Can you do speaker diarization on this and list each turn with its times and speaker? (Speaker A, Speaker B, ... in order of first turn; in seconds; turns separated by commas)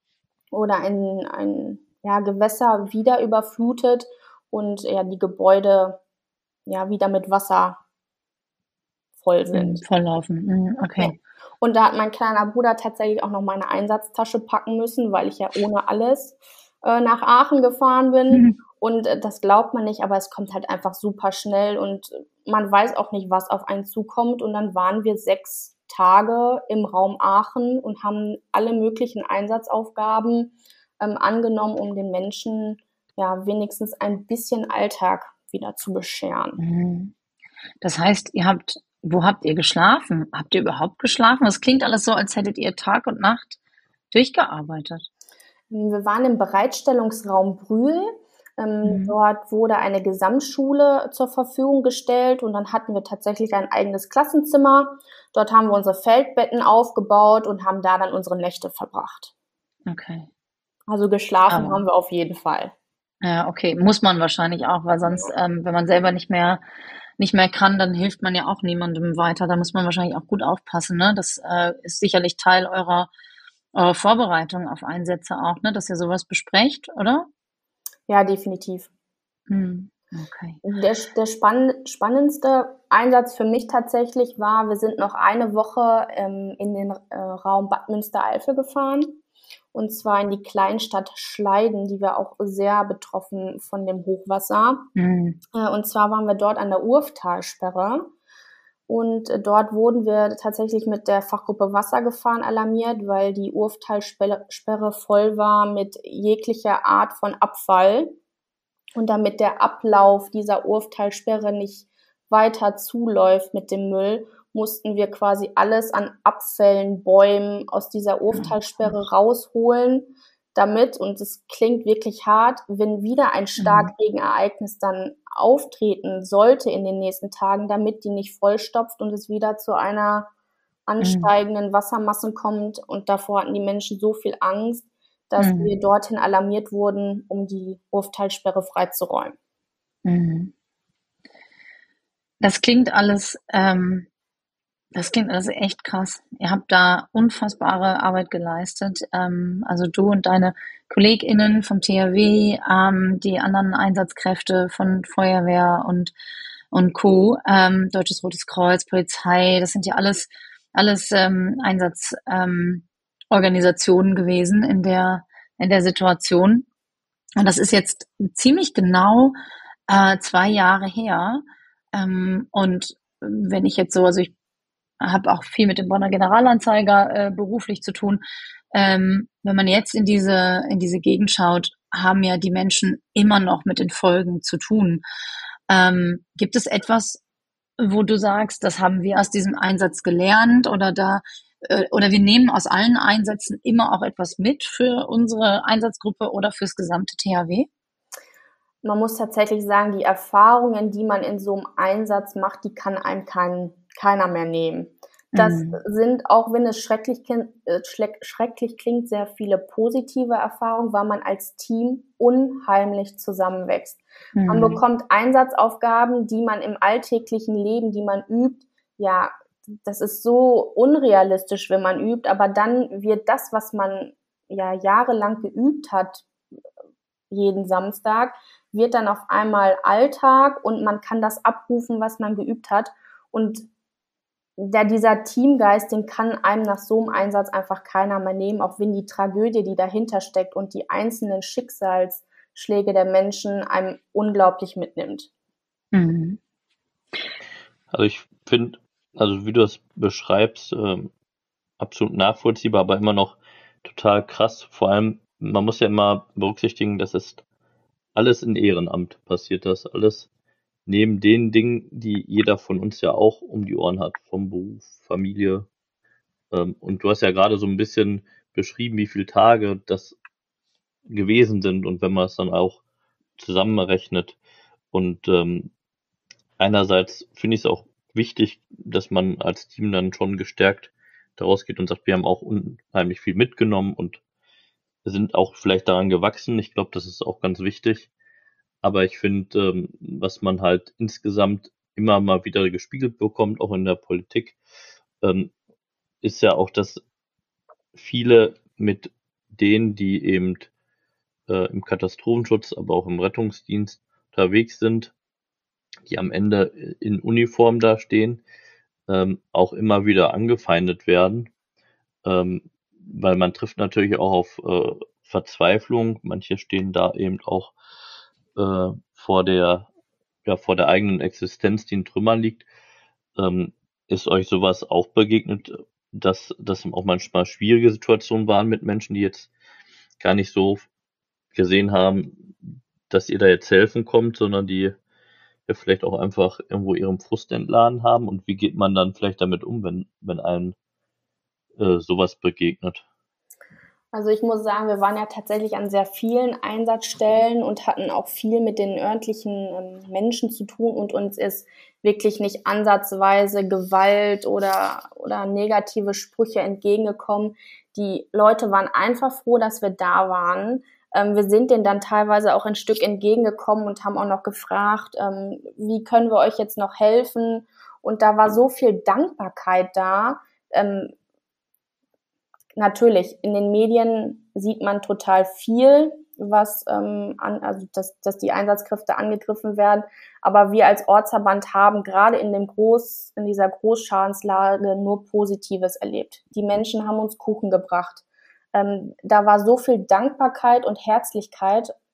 Speaker A: 0.5-6.0, Speaker A: 6.7-7.8, Speaker A: 9.2-9.8, Speaker B: 9.5-11.2, Speaker A: 11.0-36.6, Speaker B: 18.3-18.6, Speaker B: 36.6-37.1, Speaker B: 37.8-43.6, Speaker B: 44.1-45.1, Speaker A: 45.7-59.3, Speaker B: 48.9-49.2, Speaker B: 59.9-60.3, Speaker A: 60.9-62.7, Speaker B: 61.5-61.8, Speaker B: 63.2-66.6, Speaker B: 67.2-73.1, Speaker B: 73.7-77.3, Speaker A: 78.1-78.9, Speaker B: 79.5-80.6, Speaker A: 80.6-89.2, Speaker A: 89.7-94.9, Speaker B: 95.0-95.4, Speaker A: 95.5-98.1, Speaker A: 98.9-108.2, Speaker A: 109.0-130.3, Speaker B: 118.3-118.9, Speaker B: 123.6-123.9, Speaker A: 130.9-139.4, Speaker B: 131.0-131.3, Speaker B: 135.4-135.7, Speaker B: 140.1-140.5, Speaker B: 142.4-144.1, Speaker B: 144.9-156.1, Speaker B: 156.7-166.7, Speaker B: 167.4-169.3, Speaker B: 169.9-171.4, Speaker B: 171.9-174.3, Speaker B: 175.0-178.2, Speaker B: 178.7-185.0, Speaker B: 185.7-187.2, Speaker B: 187.8-197.7, Speaker A: 198.8-226.3, Speaker B: 205.3-205.8, Speaker B: 214.4-214.8, Speaker A: 227.3-233.7, Speaker A: 234.6-245.3, Speaker B: 245.9-246.4, Speaker C: 247.9-251.1, Speaker C: 251.8-257.4, Speaker C: 258.1-260.3, Speaker C: 260.9-265.7, Speaker C: 266.5-270.1, Speaker C: 271.1-272.8, Speaker C: 273.4-274.4, Speaker C: 274.9-275.7, Speaker C: 276.6-284.2, Speaker C: 285.1-288.1, Speaker C: 288.8-294.6, Speaker C: 295.2-295.5, Speaker C: 296.2-297.0, Speaker C: 297.9-300.7, Speaker C: 301.5-305.1, Speaker C: 306.1-308.4, Speaker C: 309.1-311.5, Speaker C: 312.2-317.8, Speaker C: 318.6-319.9, Speaker C: 320.5-322.7, Speaker C: 323.4-329.5, Speaker C: 330.2-330.9, Speaker C: 331.6-332.5, Speaker C: 333.1-334.9, Speaker C: 335.7-340.8, Speaker C: 341.8-343.1, Speaker A: 344.1-371.1, Speaker A: 372.8-388.2, Speaker A: 388.7-391.9